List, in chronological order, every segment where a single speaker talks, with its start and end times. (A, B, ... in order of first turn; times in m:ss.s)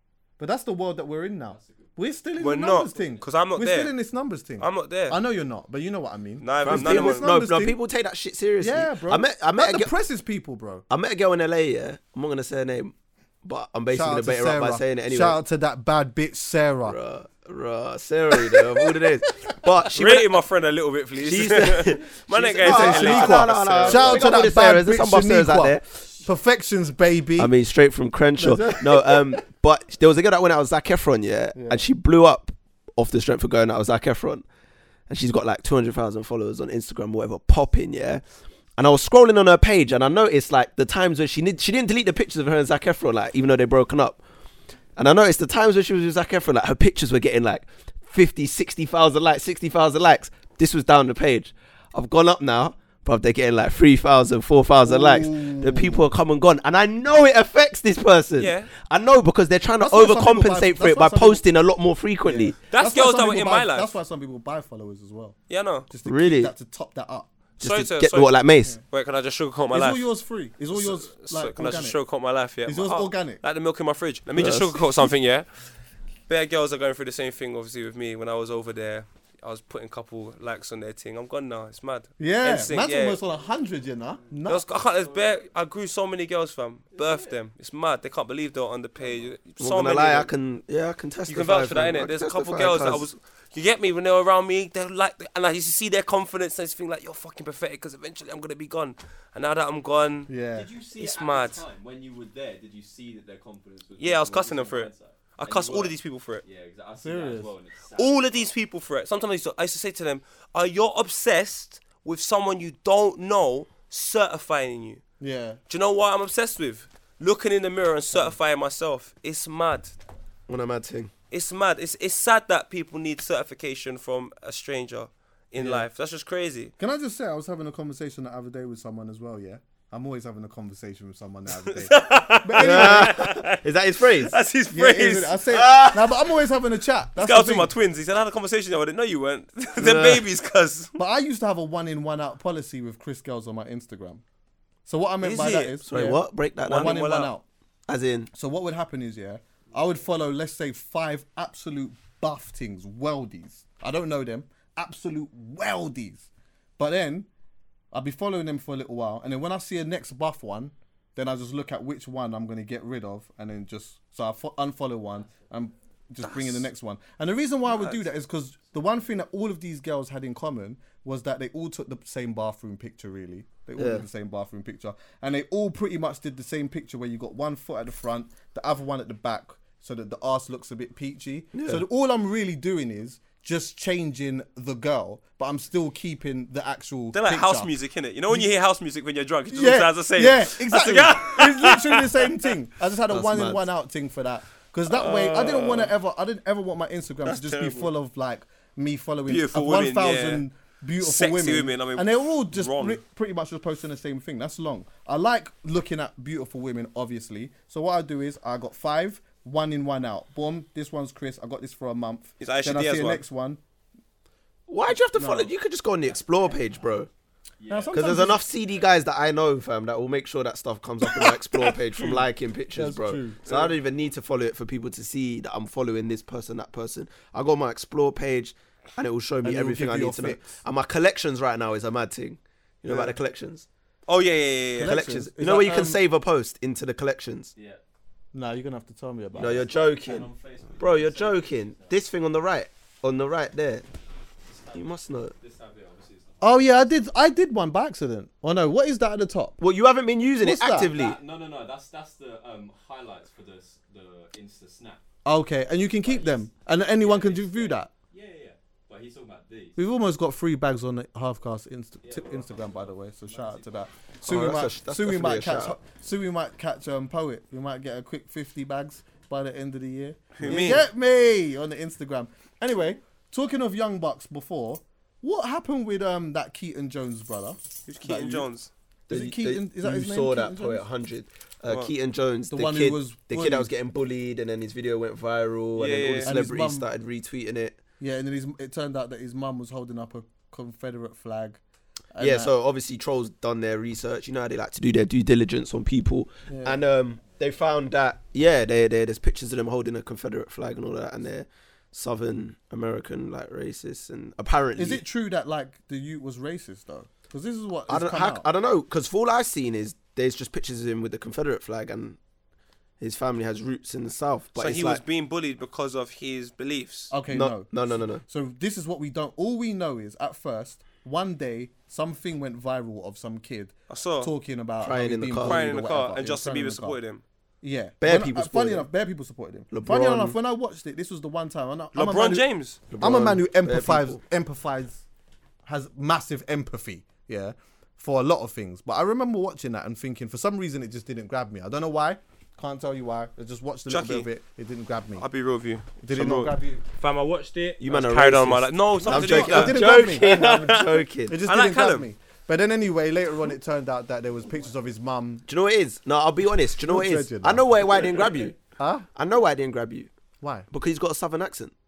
0:00.4-0:07.8 A
0:01.5-0:02.1 B
0:02.4-0:03.9 C
0:02.8-0:03.2 B
0:04.6-0:05.2 C
0:06.4-0:07.3 C
0:06.7-0:09.9 D
0:08.6-0:10.8 A
0:10.9-0:15.4 D
0:13.9-0:17.0 A
0:16.9-0:20.3 D
0:18.3-0:18.9 A
0:19.9-0:24.1 C
0:21.2-0:25.8 D
0:22.6-0:27.5 A
0:27.4-0:34.4 D
0:28.4-0:29.4 A
0:31.6-0:31.8 A
0:35.1-0:38.2 D
0:38.8-0:44.2 D
0:45.0-1:02.6 D
0:54.8-0:56.0 A
0:58.4-0:58.7 C
0:59.8-1:01.4 A
1:02.2-1:05.4 A
1:02.7-1:03.9 C
1:05.5-1:05.9 C
1:05.9-1:07.3 A
1:06.0-1:06.5 D
1:07.6-1:10.0 C
1:07.6-1:08.8 D
1:09.7-1:12.0 A
1:10.7-1:15.5 C
1:12.6-1:13.4 A
1:14.4-1:15.1 D
1:16.3-1:23.2 C
1:22.2-1:24.7 A
1:24.5-1:30.3 C
1:25.0-1:25.2 B
1:27.0-1:27.3 B
1:29.6-1:33.1 D
1:31.3-1:40.3 C
1:40.3-1:40.7 A
1:40.5-1:48.5 B
1:41.0-1:41.6 C
1:44.0-1:46.4 C
1:47.0-1:47.5 A
1:48.0-1:55.0 C
1:55.2-1:55.6 A
1:55.7-2:00.0 C
1:58.1-1:58.4 A
2:00.5-2:01.1 D
2:01.3-2:06.7 C
2:05.6-2:05.9 A
2:06.8-2:13.3 A
2:11.6-2:13.6 C
2:12.6-2:14.3 D
2:14.3-2:15.5 C
2:14.7-2:17.7 A
2:15.5-2:16.2 D
2:17.2-2:20.9 C
2:19.8-2:20.2 D
2:21.0-2:24.2 A
2:24.9-2:27.4 A
2:25.2-2:25.8 C
2:25.9-2:27.0 D
2:26.7-2:27.3 C
2:27.9-2:28.3 D
2:28.3-2:37.3 A
2:37.9-3:07.7 A
2:46.2-2:46.6 C
2:47.7-2:48.0 C
2:53.8-2:54.0 D
3:01.5-3:01.8 D
3:07.1-3:12.3 C
3:09.5-3:33.6 A
3:13.1-3:13.6 D
3:14.9-3:15.9 C
3:17.3-3:17.9 C
3:19.3-3:20.4 C
3:21.0-3:23.0 C
3:32.4-3:33.2 C
3:34.7-3:37.1 D
3:35.1-3:35.5 A
3:37.6-3:38.9 B
3:37.7-3:38.4 A
3:37.9-3:53.7 D
3:42.7-3:43.7 A
3:49.4-3:50.6 A
3:52.9-3:53.1 A
3:54.1-3:55.0 C
3:54.8-3:56.0 A
3:54.8-3:57.5 D
3:57.6-3:57.8 B
3:58.3-3:59.6 A
3:59.4-4:03.8 D
3:59.4-4:02.0 B
4:04.5-4:06.8 B
4:04.7-4:05.3 D
4:06.4-4:09.6 A
4:09.6-4:11.2 D
4:10.4-4:10.9 A
4:10.8-4:15.0 B
4:15.2-4:17.9 A
4:16.0-4:19.8 B
4:19.8-4:38.5 A
4:22.0-4:23.8 B
4:24.2-4:25.8 D
4:30.4-4:30.8 C
4:37.9-4:38.7 C
4:39.1-4:47.8 D
4:39.1-4:40.8 A
4:42.5-4:43.7 A
4:45.8-4:46.3 C
4:46.2-4:46.9 A
4:48.0-4:51.6 A
4:52.1-4:52.5 A
4:52.2-5:05.0 D
4:56.5-4:56.8 A
5:04.8-5:08.5 A
5:07.9-5:12.2 D
5:13.0-5:15.0 D
5:14.6-5:17.1 C
5:17.1-5:27.0 A
5:17.3-5:18.2 D
5:23.9-5:24.3 C
5:24.8-5:25.6 D
5:25.4-5:27.2 C
5:27.6-5:32.4 A
5:28.0-5:28.9 D
5:29.7-5:30.4 D
5:32.0-5:32.8 C
5:32.9-5:34.2 D
5:33.0-5:35.0 A
5:35.7-5:45.3 A
5:43.9-5:44.3 C
5:45.2-5:52.1 C
5:46.0-5:46.8 A
5:47.8-5:51.4 D
5:49.0-5:55.5 A
5:55.5-5:58.6 D
5:56.8-5:57.7 A
5:58.7-5:59.1 A
5:59.2-6:00.1 D
6:00.4-6:00.7 A
6:00.7-6:01.7 D